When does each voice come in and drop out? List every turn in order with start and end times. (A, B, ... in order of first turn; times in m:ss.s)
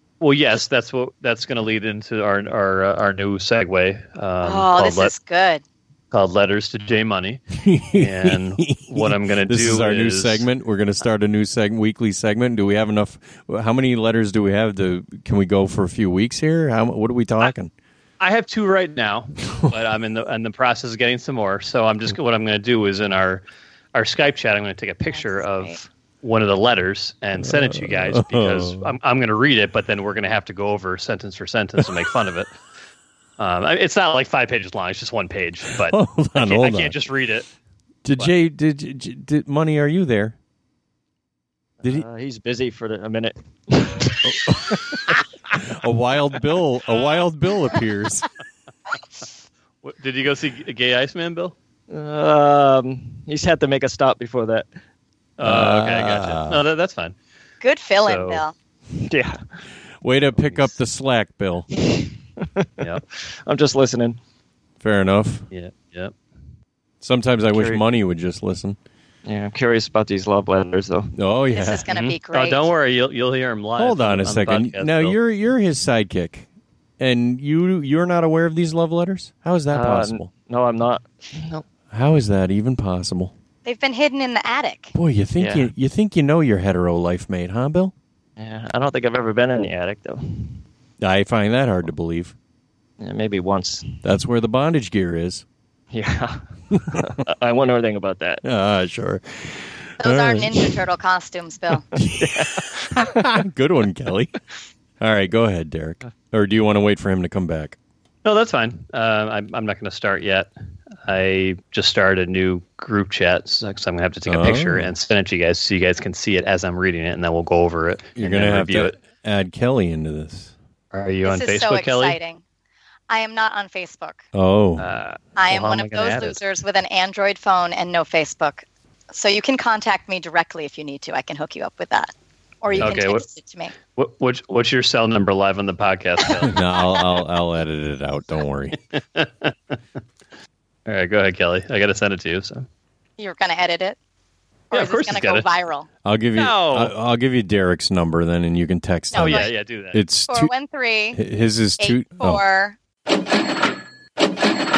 0:00.2-0:05.1 A
0:04.4-0:05.6 B
0:06.1-0:07.4 A
0:07.5-0:17.7 C
0:07.9-0:10.4 A
0:18.2-0:32.5 A
0:25.1-0:25.8 B
0:27.4-0:28.9 C
0:33.4-0:37.5 A
0:35.9-0:37.0 C
0:38.0-0:40.4 C
0:41.8-0:44.4 D
0:44.2-0:48.2 C
0:49.8-0:51.6 A
0:51.9-0:54.7 D
0:55.4-0:57.1 A
0:55.4-0:56.6 C
0:57.6-0:58.5 B
0:58.0-0:58.4 A
0:59.0-0:59.4 D
1:00.0-1:01.7 C
1:00.4-1:00.8 A
1:01.7-1:04.2 D
1:04.8-1:05.5 C
1:05.5-1:06.1 A
1:07.0-1:08.8 C
1:07.5-1:07.8 D
1:09.2-1:11.1 D
1:11.2-1:11.8 C
1:11.5-1:12.7 B
1:11.9-1:15.2 A
1:13.8-1:16.5 C
1:17.0-1:20.3 C
1:19.7-1:21.6 D
1:21.9-1:23.3 C
1:23.6-1:24.9 B
1:24.9-1:27.9 C
1:25.4-1:25.7 D
1:28.4-1:30.6 D
1:31.0-1:32.4 C
1:33.0-1:34.0 D
1:34.0-1:35.4 C
1:35.9-1:38.4 D
1:38.4-1:40.7 C
1:40.0-1:41.8 B
1:42.0-1:44.4 C
1:42.1-1:43.3 D
1:45.0-1:47.8 C
1:48.2-1:50.5 A
1:51.1-1:59.0 A
1:54.2-1:54.9 C
1:58.2-2:00.5 C
2:00.9-2:02.2 A
2:01.2-2:02.4 B
2:03.1-2:04.2 B
2:04.3-2:04.9 C
2:04.8-2:06.4 A
2:05.4-2:13.7 B
2:12.8-2:13.2 A
2:14.0-2:16.6 A
2:16.4-2:18.8 C
2:18.9-2:19.8 A
2:20.9-2:22.6 A
2:23.2-2:24.0 B
2:24.7-2:25.4 A
2:24.7-2:25.9 B
2:26.0-2:30.5 C
2:26.4-2:26.9 A
2:29.1-2:29.5 B
2:29.1-2:30.0 A
2:30.3-2:31.2 B
2:31.1-2:32.4 C
2:31.8-2:32.8 B